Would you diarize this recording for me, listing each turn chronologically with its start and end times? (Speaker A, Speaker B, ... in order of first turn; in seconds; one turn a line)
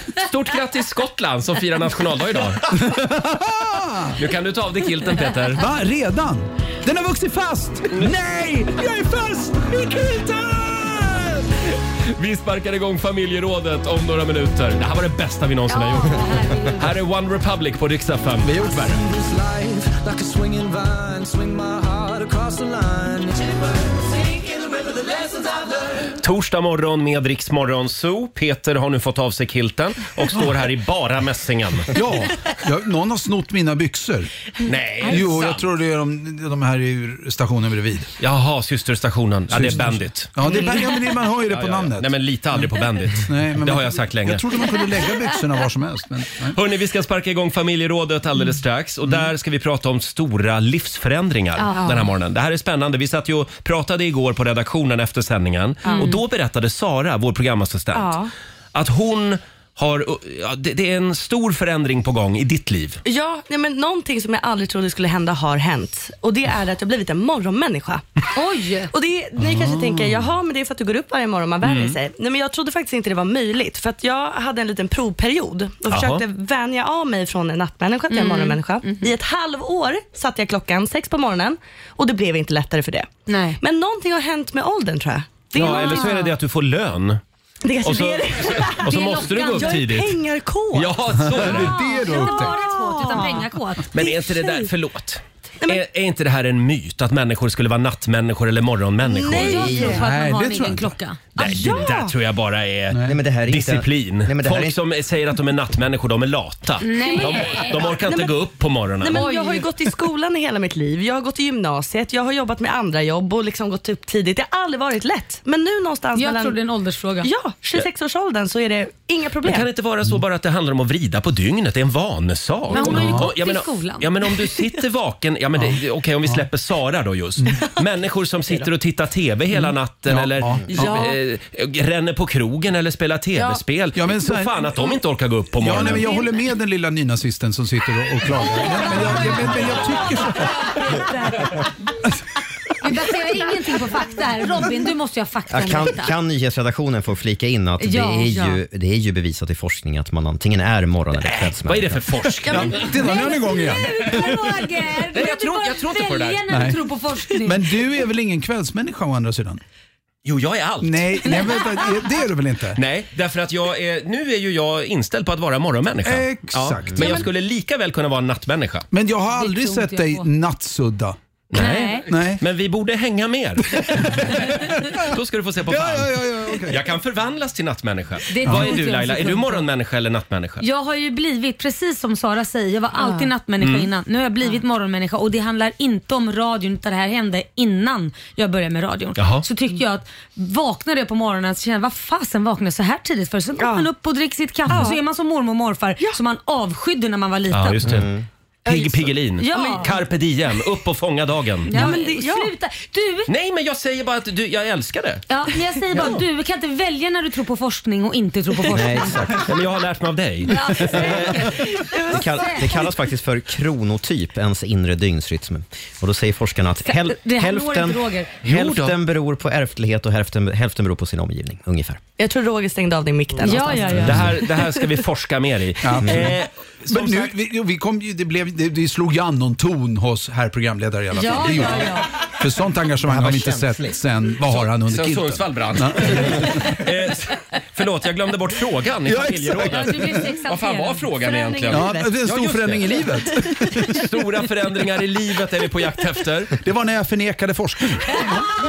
Speaker A: 0.2-2.6
Speaker B: 2.7-4.2
Speaker A: 4.2-5.6
Speaker B: 5.6-11.4
Speaker A: 7.9-8.2
Speaker A: 11.7-19.0
Speaker C: 15.7-16.9
Speaker B: 18.5-19.7
Speaker B: 20.3-21.6
Speaker A: 26.2-31.9
Speaker B: 30.3-30.7
Speaker B: 31.9-34.3
Speaker A: 34.6-35.7
Speaker B: 35.1-38.1
Speaker A: 38.2-40.9
Speaker B: 39.5-46.6
Speaker D: 40.5-40.8
Speaker A: 41.5-44.5
Speaker A: 46.5-63.0
Speaker C: 51.6-52.0
Speaker D: 51.7-52.0
Speaker D: 55.8-56.2
Speaker C: 55.9-56.2
Speaker D: 58.0-58.3
Speaker D: 63.0-68.0
Speaker C: 68.3-68.9
Speaker D: 68.9-86.2
Speaker B: 69.4-70.3
Speaker A: 71.6-72.0
Speaker A: 75.9-76.2
Speaker C: 78.1-79.1
Speaker C: 83.3-83.6
Speaker A: 85.5-87.2
Speaker C: 85.6-86.3
Speaker D: 87.6-88.8
Speaker A: 87.8-91.8
Speaker C: 88.8-89.8
Speaker D: 89.5-91.0
Speaker B: 91.2-92.6
Speaker C: 91.5-93.9
Speaker D: 92.5-93.5
Speaker A: 93.9-99.8
Speaker D: 94.0-94.7
Speaker D: 99.1-100.0
Speaker C: 99.2-101.7
Speaker B: 99.8-100.9
Speaker A: 101.4-109.3
Speaker D: 101.4-102.1
Speaker B: 102.9-103.2
Speaker E: 103.0-104.8
Speaker C: 106.8-107.9
Speaker D: 107.1-108.4
Speaker D: 109.0-116.6
Speaker C: 109.1-109.7
Speaker C: 116.2-117.3
Speaker D: 117.2-119.7
Speaker A: 119.4-136.2
Speaker C: 122.7-124.1
Speaker B: 122.8-123.3
Speaker B: 125.6-126.5
Speaker B: 130.1-131.1
Speaker C: 130.8-131.1
Speaker B: 133.9-134.6
Speaker B: 135.6-140.8
Speaker C: 135.9-136.3
Speaker C: 139.7-141.7
Speaker C: 142.8-146.1
Speaker E: 145.5-152.1
Speaker C: 147.8-148.6
Speaker A: 151.2-152.9
Speaker B: 152.5-154.6
Speaker C: 152.7-157.7
Speaker D: 153.1-153.4
Speaker A: 155.1-156.4
Speaker B: 156.5-156.8
Speaker B: 157.5-159.6
Speaker A: 160.2-161.4
Speaker B: 160.8-162.8
Speaker A: 162.8-168.8
Speaker B: 166.0-167.2
Speaker B: 168.9-171.2
Speaker C: 169.3-170.3
Speaker A: 171.5-180.7
Speaker C: 171.6-172.1
Speaker B: 172.1-172.4
Speaker B: 173.8-175.0
Speaker B: 175.7-176.8
Speaker C: 178.3-179.7
Speaker B: 178.5-178.7
Speaker C: 180.6-197.9
Speaker D: 183.0-183.3
Speaker A: 183.6-183.9
Speaker A: 189.2-189.4
Speaker D: 193.6-193.9
Speaker D: 194.7-195.0
Speaker A: 197.5-198.1
Speaker E: 197.8-198.2
Speaker A: 198.7-201.9
Speaker C: 199.4-199.9
Speaker D: 201.7-202.5
Speaker C: 201.7-203.3
Speaker A: 203.3-205.3
Speaker C: 205.3-209.2
Speaker A: 205.9-206.2
Speaker E: 208.7-209.6
Speaker A: 209.3-211.5
Speaker C: 210.5-212.7
Speaker D: 211.9-212.6
Speaker E: 212.1-222.0
Speaker C: 216.9-218.3
Speaker A: 218.4-218.9
Speaker D: 222.2-224.8
Speaker C: 223.4-224.2
Speaker B: 223.9-224.3
Speaker A: 224.0-227.3
Speaker B: 225.8-236.7
Speaker C: 231.1-232.1
Speaker E: 233.1-234.0
Speaker A: 234.4-243.2
Speaker B: 239.1-239.9
Speaker C: 239.7-241.3
Speaker D: 241.2-242.2
Speaker B: 241.7-243.9
Speaker A: 243.7-246.5
Speaker B: 246.6-248.5